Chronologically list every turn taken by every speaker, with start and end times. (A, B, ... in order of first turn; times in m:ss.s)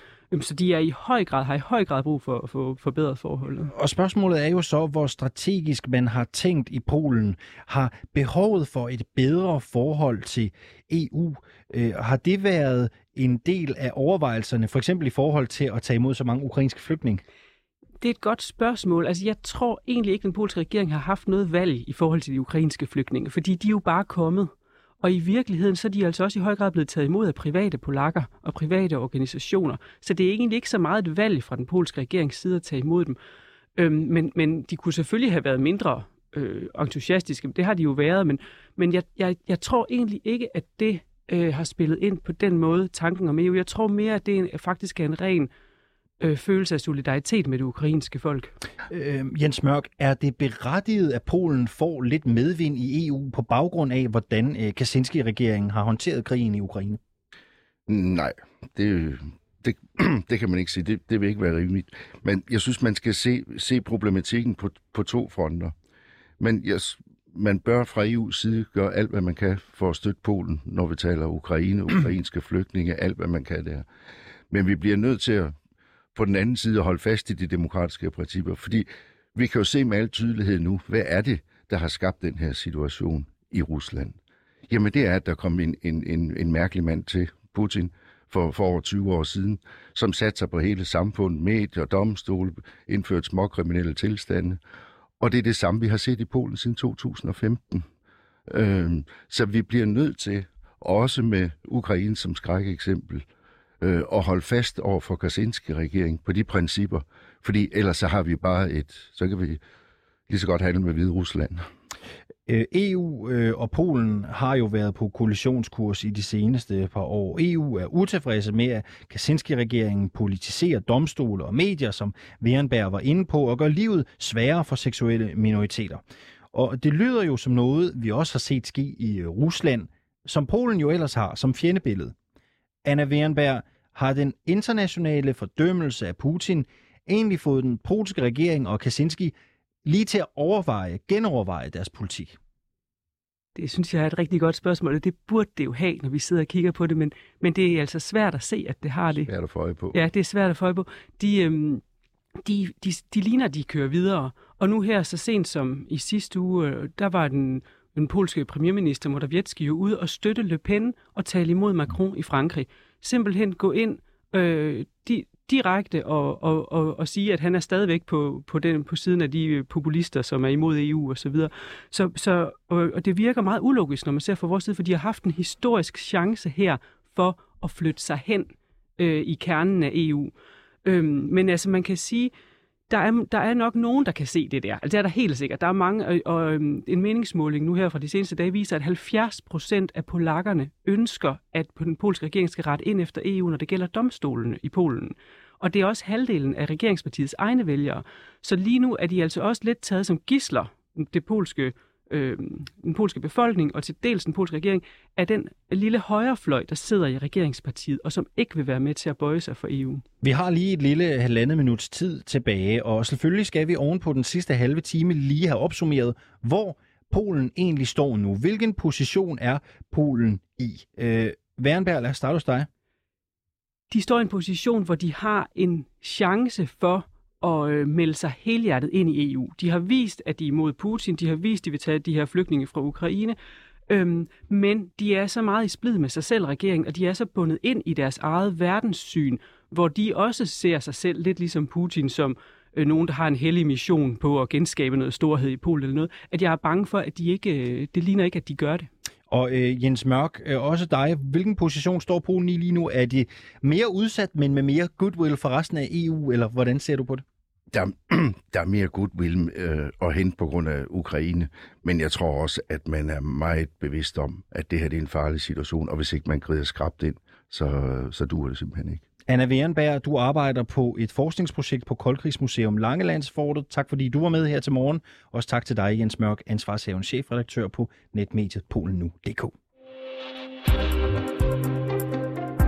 0:00.3-0:03.7 A
0:03.7-0:17.2 B
0:18.0-0:33.2 A
0:33.8-0:45.5 A
0:46.2-0:48.5 A
0:48.9-0:57.0 B
0:57.9-1:05.7 C
1:06.4-1:13.8 C
1:14.5-1:15.5 C
1:16.1-1:24.2 C
1:24.7-1:34.6 C
1:35.2-1:37.9 C
1:38.5-1:43.2 C
1:43.8-1:49.6 C
1:50.3-1:51.7 C
1:52.5-2:12.1 B
2:12.8-2:22.4 B
2:23.6-2:29.3 A
2:29.2-2:30.0 C
2:29.9-2:31.8 A
2:32.4-3:00.3 A
3:00.8-3:02.3 A
3:02.9-3:30.0 A
3:30.2-3:42.7 B
3:43.9-3:53.4 A
3:53.9-4:08.9 A
4:09.3-4:17.2 B
4:17.7-4:29.0 C
4:29.3-4:39.5 B